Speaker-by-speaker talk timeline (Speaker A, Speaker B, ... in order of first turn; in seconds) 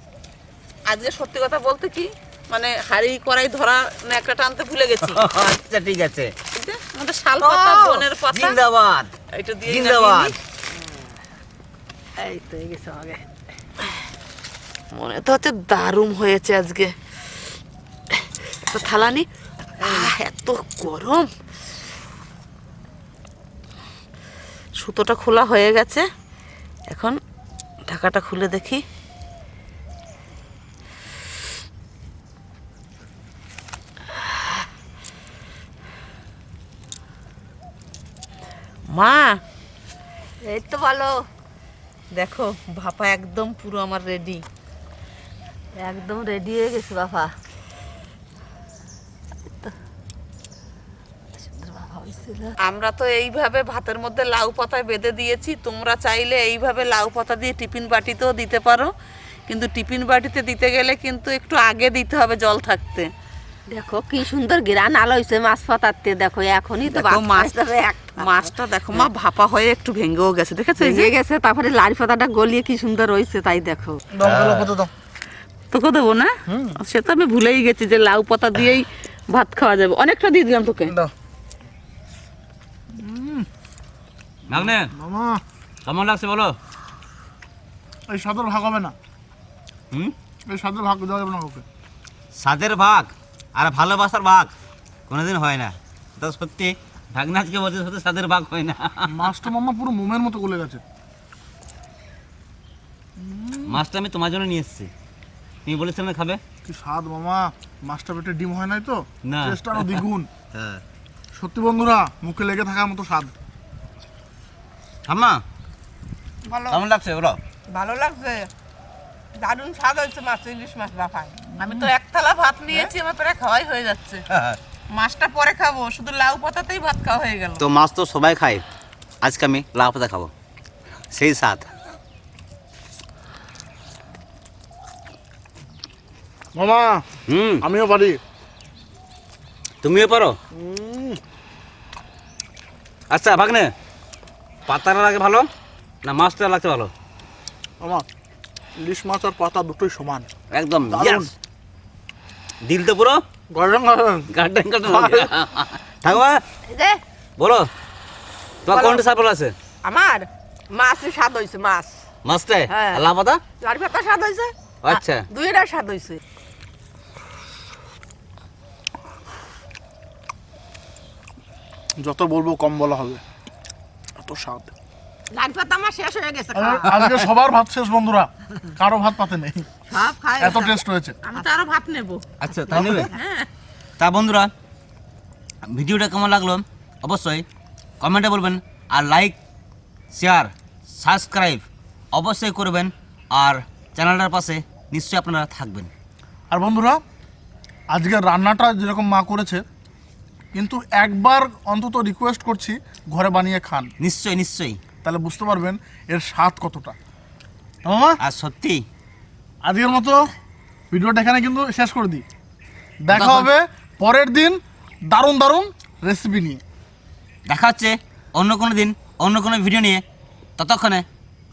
Speaker A: 0.9-5.2, 6.5-8.6, 9.3-10.4, 14.9-16.9, 18.2-19.2, 19.8-21.3, 24.8-26.0, 26.9-27.2, 27.9-28.8, 38.9-39.4, 42.1-44.5, 52.6-58.9, 59.5-63.1, 66.9-71.1, 75.7-81.0, 121.5-124.2, 125.0-127.6, 181.2-182.2
Speaker B: 5.0-6.3, 7.4-9.1, 9.7-10.4, 74.2-74.7, 84.5-84.9, 85.9-86.6, 92.4-94.5, 95.1-99.4, 103.7-104.9, 105.7-106.4, 109.2-110.8, 115.1-115.4, 116.7-117.4, 124.3-124.6, 127.6-128.6, 129.2-130.3, 131.1-131.6, 137.3-137.6, 139.8-140.4, 143.1-143.7, 144.7-145.5, 146.0-146.9, 150.5-151.3, 152.6-153.2, 154.3-156.4, 157.4-157.7, 158.6-159.5, 162.2-163.4, 164.8-165.2, 182.4-183.1, 184.0-184.5, 185.7-187.4, 188.0-189.4, 190.1-195.9, 204.0-204.8, 208.2-208.8, 213.1-213.5, 217.5-220.0, 220.6-221.1
Speaker C: 12.2-13.2, 19.8-20.1, 40.4-41.2, 45.8-47.3, 51.4-52.5, 63.7-69.1, 70.8-74.0, 116.5-116.8, 117.7-118.5, 119.4-121.5, 156.7-157.0, 158.7-159.0, 159.8-161.9, 162.7-163.0, 163.6-166.2, 175.3-177.2, 179.9-180.8, 182.5-183.5
Speaker D: 74.1-74.9, 76.5-76.8, 82.9-83.5, 84.5-85.4, 88.1-89.0, 90.5-91.6, 99.1-100.8, 103.2-103.8, 106.6-110.3, 111.3-113.3, 136.5-137.0, 137.6-138.2, 140.5-141.2, 148.8-150.3, 150.9-151.3, 153.5-154.3, 154.9-155.3, 172.0-173.2, 174.2-174.7, 176.5-179.7, 180.4-181.2, 196.5-197.0, 197.9-199.6, 200.5-203.9, 205.0-207.0, 207.8-208.2, 209.6-210.3, 210.9-212.2, 213.0-216.6